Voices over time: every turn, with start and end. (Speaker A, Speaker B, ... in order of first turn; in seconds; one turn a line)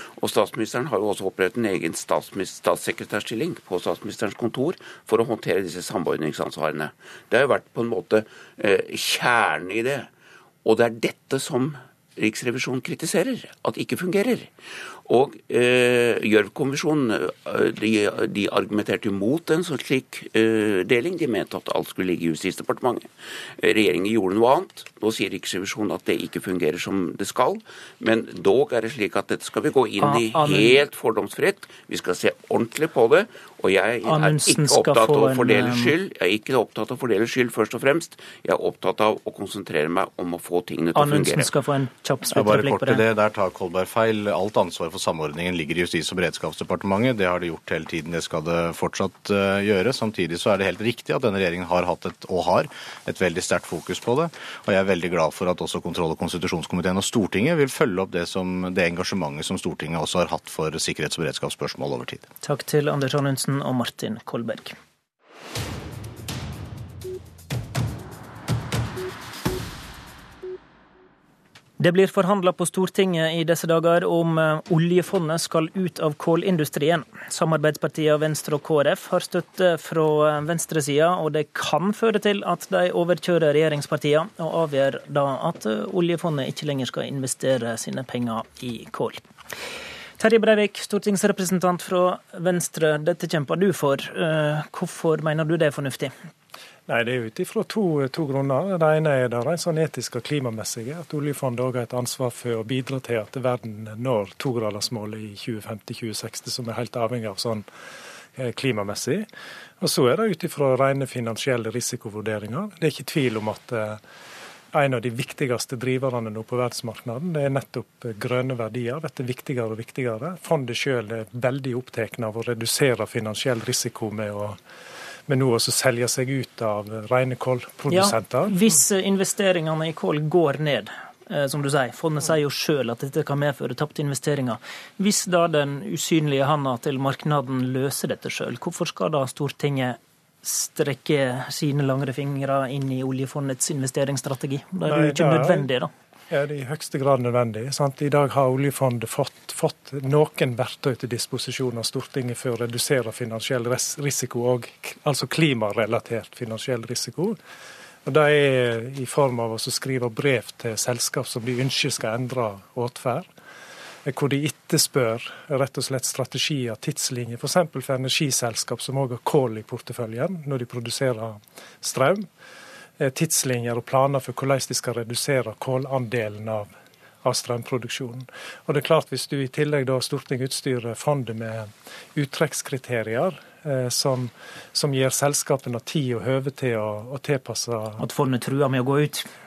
Speaker A: 0.2-10.1
Speaker A: 10.7-14.5
Speaker A: 15.1-23.1
Speaker A: 23.6-41.5
Speaker B: 30.0-30.8
Speaker B: 34.1-35.9
Speaker B: 41.0-43.0
Speaker C: 42.3-62.3
Speaker B: 62.4-64.7
Speaker B: 71.8-89.2
Speaker B: 90.2-96.1
Speaker D: 96.9-107.7
Speaker D: 108.4-109.3
Speaker D: 109.8-114.0
Speaker D: 114.7-124.6
Speaker D: 125.3-128.6
Speaker B: 127.9-145.9
Speaker D: 144.9-145.7
Speaker D: 146.3-157.4
Speaker D: 158.1-163.3
Speaker D: 164.1-172.3
Speaker D: 173.0-176.7
Speaker D: 177.2-188.0
Speaker B: 188.0-189.3